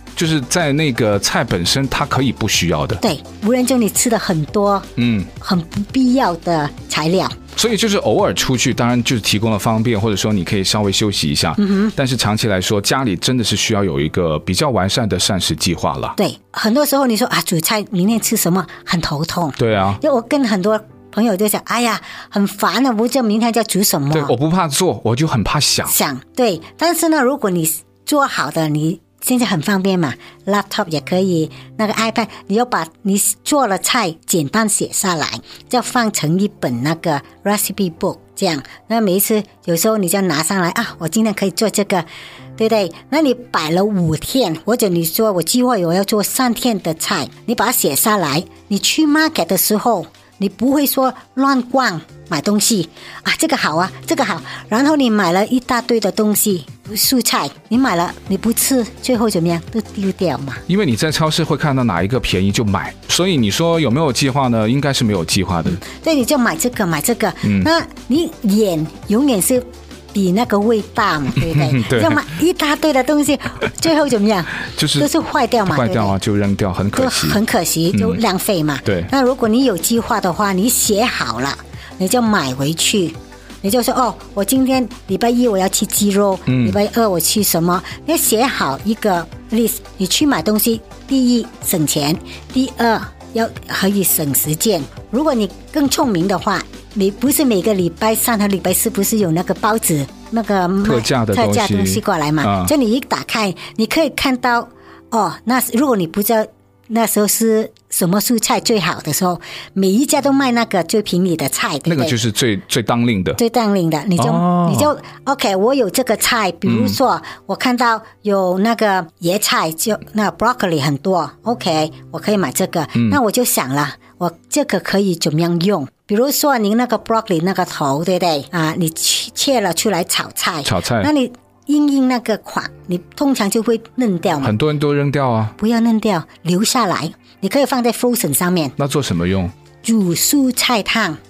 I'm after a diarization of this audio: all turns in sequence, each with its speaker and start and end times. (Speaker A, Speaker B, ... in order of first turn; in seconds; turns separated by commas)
Speaker A: 0.1-3.0, Speaker B: 3.0-7.4, Speaker A: 5.0-5.3, Speaker A: 7.5-16.1, Speaker B: 11.6-11.9, Speaker B: 16.2-24.3, Speaker A: 19.6-20.0, Speaker A: 24.1-25.9, Speaker B: 25.9-42.0, Speaker B: 42.6-60.6, Speaker A: 60.7-65.8, Speaker B: 65.8-76.2, Speaker A: 67.4-67.7, Speaker A: 71.4-72.2, Speaker A: 74.7-75.1, Speaker A: 75.6-77.4, Speaker B: 77.0-112.2, Speaker A: 77.9-78.2, Speaker A: 86.5-86.8, Speaker A: 100.8-102.7, Speaker A: 111.9-113.4, Speaker B: 113.4-134.5, Speaker A: 114.2-114.9, Speaker A: 116.7-117.0, Speaker A: 130.6-131.1, Speaker A: 134.4-135.5, Speaker B: 135.6-138.8, Speaker A: 138.8-139.5, Speaker B: 139.8-141.2